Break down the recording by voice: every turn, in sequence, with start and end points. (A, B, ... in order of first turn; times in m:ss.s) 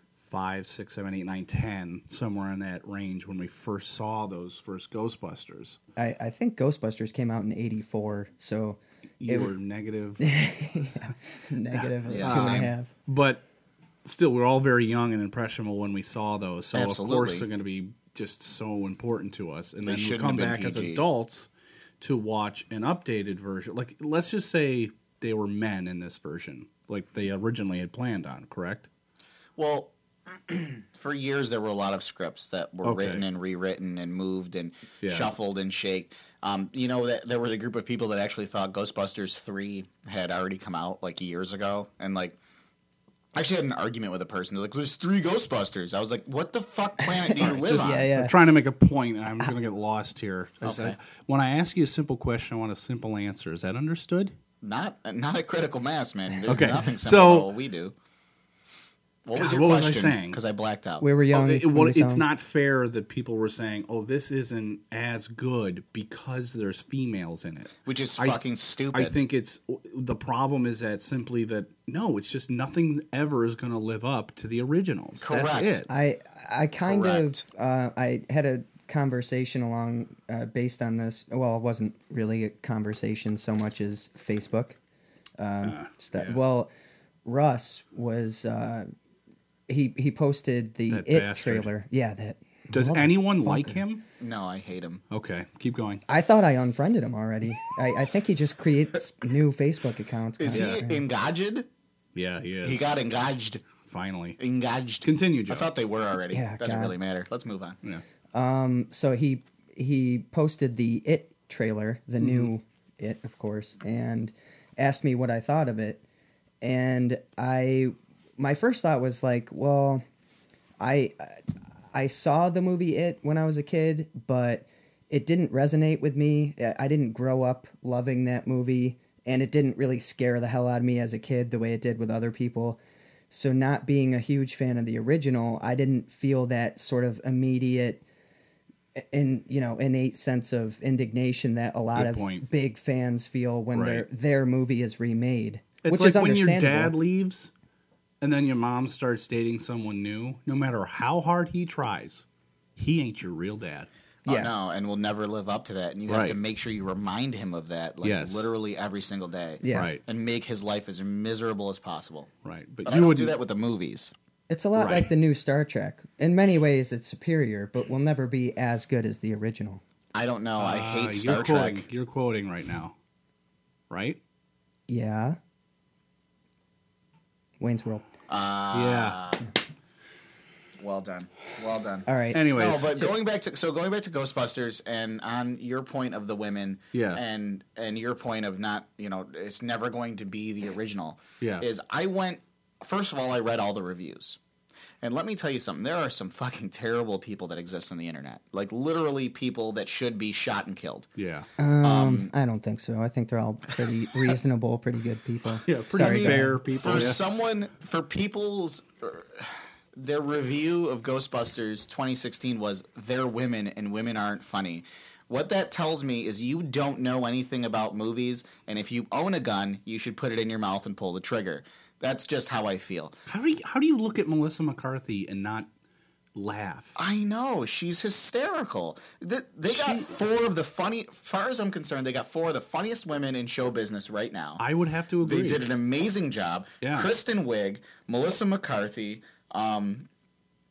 0:00.2-0:05.8 A
0:06.0-0:09.5 B
0:09.2-0:10.3 A
0:10.2-0:12.9 B
0:11.8-0:13.4 A
0:12.1-0:12.7 C
0:14.0-0:21.5 A
0:16.7-0:17.5 C
0:19.8-0:21.0 C
0:22.0-0:28.9 A
0:29.6-0:42.4 C
0:32.8-0:33.2 A
0:35.0-0:35.3 A
0:43.4-0:48.1 C
0:47.2-0:48.3 B
0:47.4-0:54.3 A
0:50.6-0:51.0 C
0:54.6-0:57.9 C
0:56.5-0:57.5 A
0:59.2-1:01.0 C
0:59.4-1:00.4 A
1:01.0-1:02.2 B
1:01.3-1:08.4 A
1:07.8-1:09.1 C
1:08.9-1:15.9 A
1:15.2-1:15.8 C
1:15.9-1:24.8 B
1:16.8-1:17.4 C
1:25.4-1:26.7 B
1:25.6-1:26.4 A
1:27.2-1:28.9 B
1:29.7-1:33.8 B
1:30.9-1:31.7 A
1:32.7-1:34.0 A
1:34.2-1:35.0 C
1:35.1-1:36.0 A
1:36.1-1:41.0 B
1:40.4-1:41.7 C
1:40.5-1:40.8 A
1:42.2-1:42.8 A
1:42.6-1:43.7 C
1:43.8-1:44.4 A
1:44.4-1:47.8 C
1:45.0-1:45.7 A
1:46.3-1:47.0 B
1:48.3-1:56.0 B
1:52.2-1:52.5 A
1:56.6-2:00.0 B
2:00.8-2:01.4 B
2:01.9-2:12.8 B
2:13.3-2:18.0 B
2:19.0-2:27.0 B
2:22.0-2:22.4 A
2:23.7-2:24.0 A
2:25.8-2:27.5 A
2:28.2-2:32.2 A
2:32.8-2:33.9 A
2:34.2-2:42.3 C
2:34.3-2:34.5 B
2:36.1-2:36.4 A
2:38.0-2:38.5 A
2:39.6-2:39.9 B
2:39.7-2:40.0 A
2:42.4-2:43.4 A
2:42.9-2:44.1 C
2:44.5-2:49.8 B
2:44.8-2:45.1 A
2:50.1-2:51.9 C
2:50.6-2:52.9 A
2:53.9-2:54.2 A
2:54.9-2:55.4 B
2:57.6-2:58.1 B
2:58.3-2:59.4 C
2:58.7-2:59.2 A
3:00.8-3:14.4 C
3:02.1-3:03.1 B
3:02.3-3:02.9 A
3:06.9-3:07.2 A
3:11.4-3:11.7 A
3:15.0-3:21.1 C
3:21.2-3:21.5 A
3:21.6-3:27.1 B
3:21.8-3:22.3 C
3:25.7-3:27.2 A
3:26.0-3:43.2 C
3:43.3-3:45.7 A
3:46.4-3:47.0 A
3:47.0-3:54.6 C
3:49.7-3:50.2 A
3:54.6-3:55.7 A
3:55.2-4:00.1 C
3:56.8-3:57.1 A